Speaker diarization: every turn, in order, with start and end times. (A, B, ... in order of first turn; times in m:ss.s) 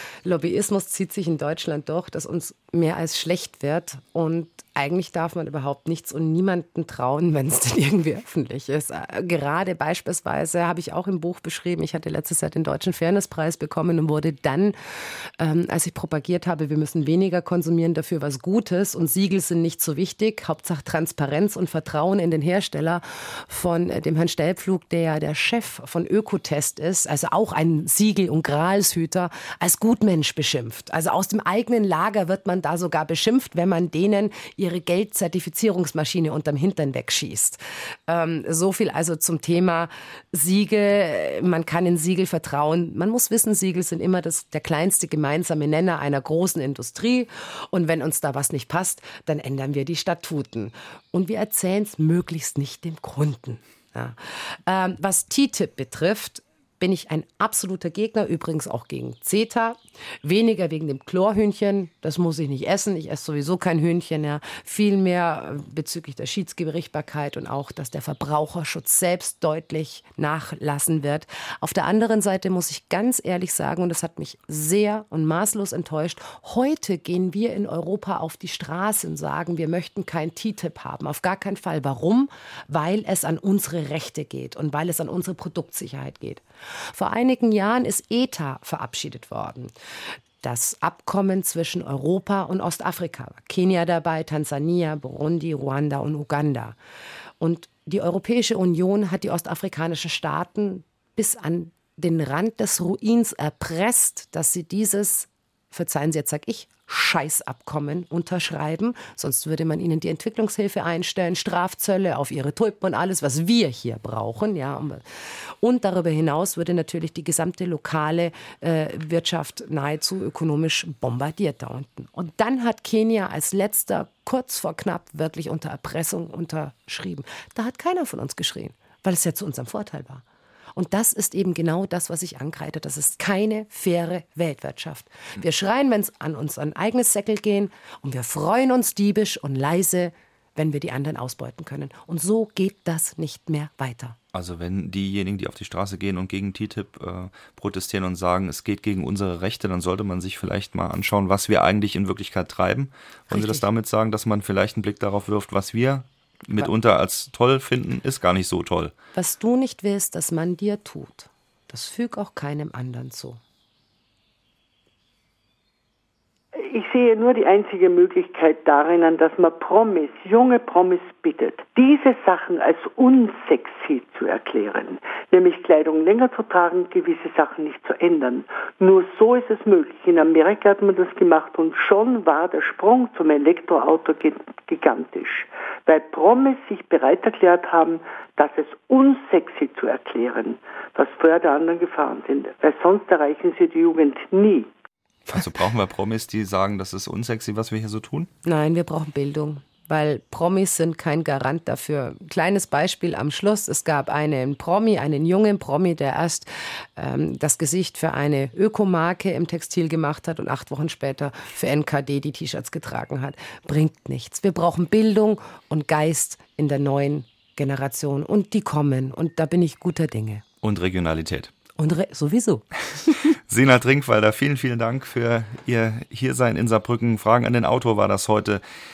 0:00.2-0:14.8 A
0:15.4-1:29.7 A
1:30.4-1:36.8 A
1:37.4-1:55.0 A
1:55.6-2:10.2 A
2:10.7-2:24.2 A
2:24.3-2:38.9 B
2:33.3-2:33.6 A
2:39.1-2:43.4 A
2:46.6-3:14.7 C
3:15.3-3:18.3 B
3:18.4-3:40.4 A
3:40.6-3:41.5 B
3:41.8-3:43.1 A
3:43.5-3:48.6 B